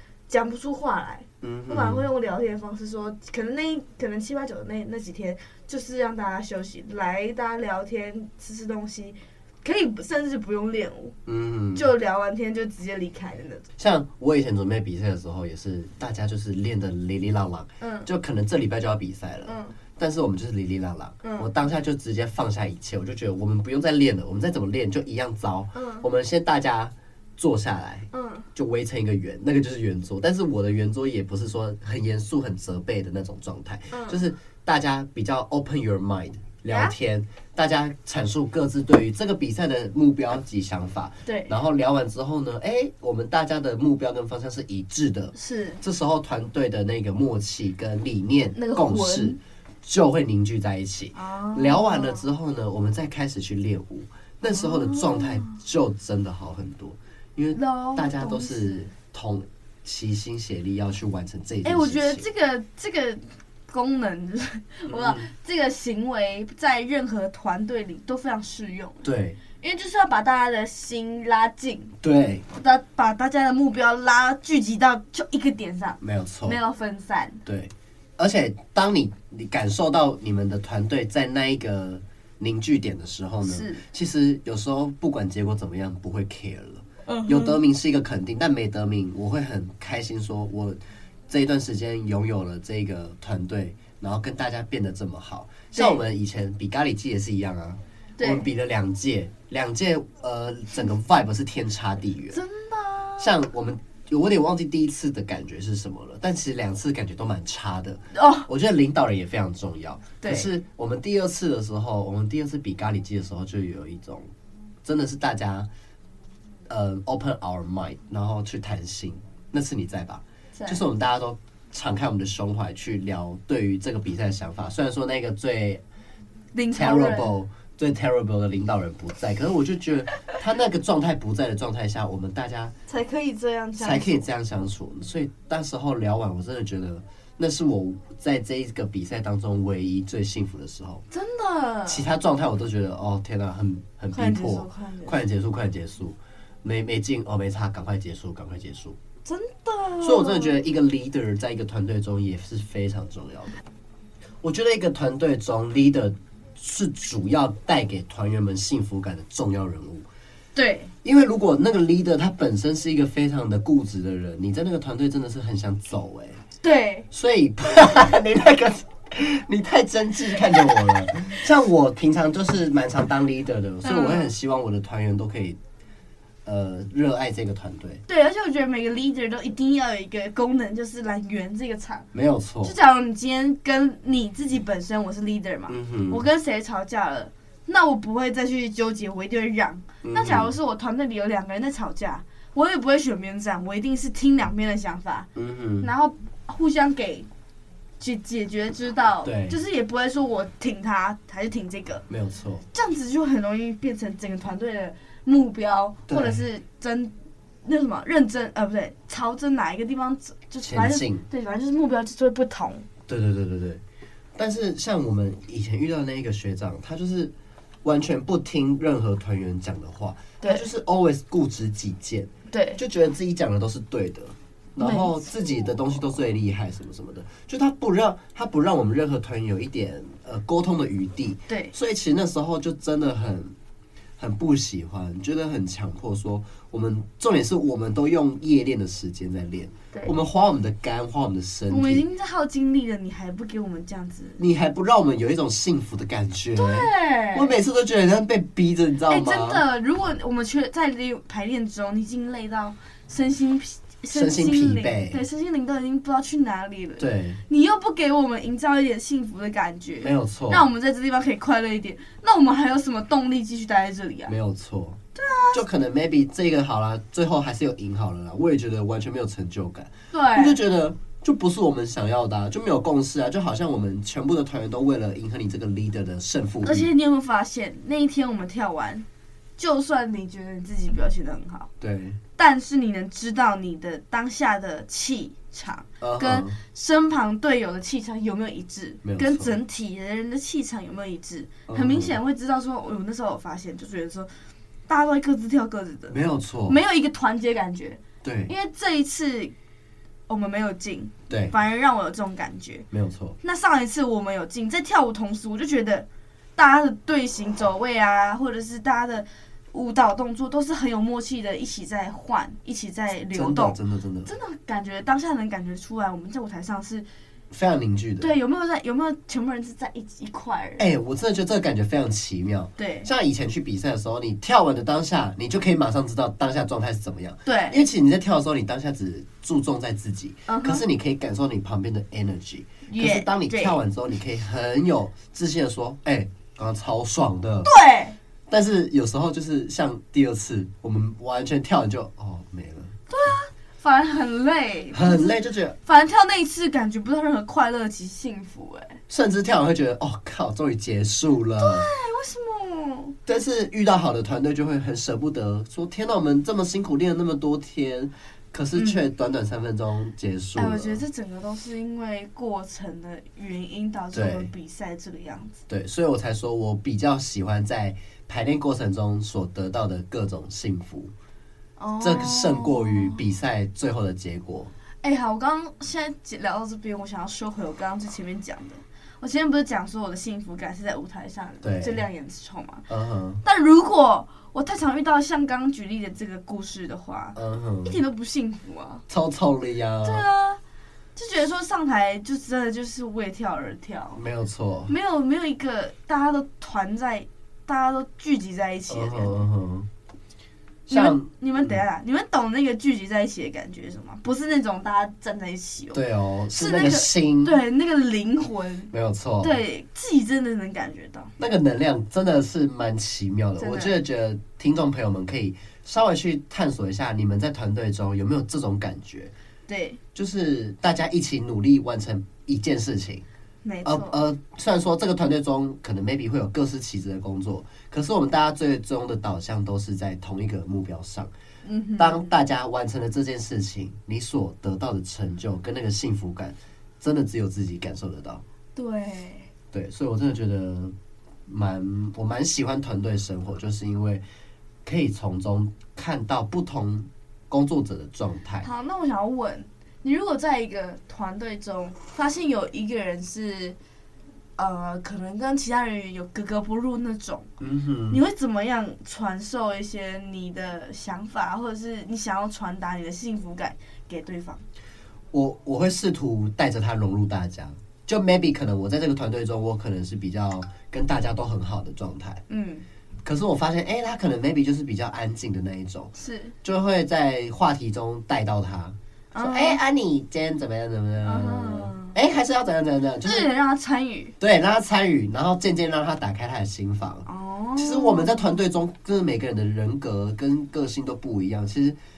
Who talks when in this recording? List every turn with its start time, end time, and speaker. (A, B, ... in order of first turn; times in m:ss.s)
0:00.3-0:11.2 A
0:01.4-0:02.0 B
0:11.2-0:11.9 B
0:11.7-0:13.6 A
0:13.8-1:02.3 B
0:17.8-0:18.1 A
0:19.4-0:19.8 A
0:21.2-0:21.5 A
0:25.7-0:26.1 A
0:28.1-0:28.5 A
0:33.9-0:34.2 A
0:36.7-0:36.9 A
0:41.2-0:41.5 A
0:45.3-0:45.8 A
0:48.5-0:49.4 A
0:51.1-0:52.2 A
0:54.4-0:55.6 A
0:57.5-0:58.9 A
1:01.6-1:11.9 A
1:04.9-1:05.3 B
1:09.0-1:09.4 B
1:12.0-1:12.4 B
1:12.5-1:17.4 A
1:16.0-1:16.6 B
1:17.4-1:42.4 B
1:23.4-1:23.8 A
1:27.0-1:27.6 A
1:35.7-1:36.0 A
1:38.2-1:38.4 A
1:42.3-1:43.4 A
1:43.2-1:54.3 B
1:48.1-1:48.5 A
1:50.2-1:50.5 A
1:54.8-1:55.7 B
1:56.7-2:05.8 B
2:00.6-2:00.8 A
2:06.5-2:07.3 A
2:06.7-2:12.7 B
2:12.9-2:14.2 A
2:13.8-2:21.0 B
2:21.1-2:22.1 A
2:21.9-2:29.0 B
2:24.1-2:25.2 A
2:29.2-2:30.6 A
2:30.0-2:33.6 B
2:34.4-2:40.0 B
2:40.5-2:40.9 A
2:41.0-2:46.4 B
2:46.6-2:47.1 A
2:47.1-2:55.6 B
2:53.8-2:54.3 A
2:56.4-2:58.0 B
2:58.1-3:02.1 A
3:02.1-3:02.7 B
3:02.6-3:15.3 A
3:05.7-3:06.2 B
3:10.0-3:10.5 B
3:15.4-3:15.9 B
3:15.8-3:17.3 A
3:18.0-3:22.0 A
3:19.2-3:19.6 B
3:22.1-3:22.6 B
3:22.7-3:32.9 A
3:26.1-3:26.4 B
3:30.6-3:31.2 B
3:33.1-3:33.8 B
3:34.4-3:37.3 B
3:37.8-3:53.5 B
3:42.5-3:42.8 A
3:44.8-3:45.3 A
3:54.2-4:02.0 B
4:01.7-4:04.4 A
4:04.4-4:09.6 B
4:06.5-4:07.5 A
4:09.1-4:24.3 A
4:14.1-4:15.2 B
4:17.0-4:17.4 B
4:20.0-4:20.7 B
4:24.3-4:25.0 B
4:25.2-4:25.6 A
4:25.5-4:36.9 B
4:30.1-4:30.6 A
4:36.6-4:39.0 A
4:39.6-4:41.7 A
4:41.8-4:42.2 B
4:42.4-4:54.3 A
4:46.0-4:46.6 B
4:49.0-4:49.5 B
4:51.7-4:52.2 B
4:54.9-4:59.5 A
4:56.1-4:56.8 B
4:58.2-4:58.5 B
5:00.3-5:02.9 A
5:01.3-5:01.5 B
5:02.9-5:03.4 B
5:03.4-5:17.1 A
5:13.3-5:14.3 B
5:17.5-5:18.3 B
5:18.2-5:20.8 A
5:20.8-5:37.7 B
5:22.8-5:23.1 A
5:27.4-5:27.8 A
5:30.5-5:30.8 A
5:32.9-5:33.8 A
5:37.6-5:38.2 A
5:38.5-5:43.0 B
5:43.1-5:49.0 A
5:44.9-5:45.8 B
5:49.1-5:51.9 B
5:51.6-5:53.2 A
5:53.2-6:01.0 B
5:58.7-5:59.0 A
6:00.6-6:05.6 A
6:04.1-6:04.5 B
6:05.7-6:11.1 B
6:11.8-6:13.2 A
6:12.0-6:14.7 B
6:15.0-6:22.8 A
6:21.6-6:22.0 B
6:22.9-6:23.4 B
6:23.4-6:29.0 A
6:27.3-6:28.0 B
6:29.1-6:30.2 B
6:30.0-6:30.6 A
6:31.1-6:34.2 A
6:34.1-6:34.9 B
6:34.9-6:39.4 A
6:38.9-6:39.9 B
6:40.9-6:41.8 B
6:40.9-6:46.0 A
6:45.9-6:47.6 B
6:46.5-6:51.3 A
6:48.9-6:49.5 B
6:51.4-6:59.3 B
6:53.6-6:54.0 A
6:59.7-7:00.0 A
7:00.1-7:03.2 B
7:03.6-7:04.2 A
7:03.8-7:11.3 B
7:11.6-7:12.3 A
7:12.0-7:18.4 B
7:18.7-7:19.5 A
7:19.7-7:21.0 B
7:21.5-7:24.2 B
7:24.8-7:28.7 B
7:28.6-7:33.8 A
7:34.6-7:37.5 A
7:37.6-7:38.2 B
7:38.1-7:44.6 A
7:45.3-7:52.4 B
7:52.5-7:52.8 A
7:53.2-7:56.1 B
7:56.2-7:56.5 A
7:56.6-8:03.5 B
7:59.3-7:59.8 A
8:01.2-8:02.2 A
8:03.2-8:04.3 A
8:04.4-8:07.2 B
8:07.2-8:08.6 A
8:07.8-8:12.0 B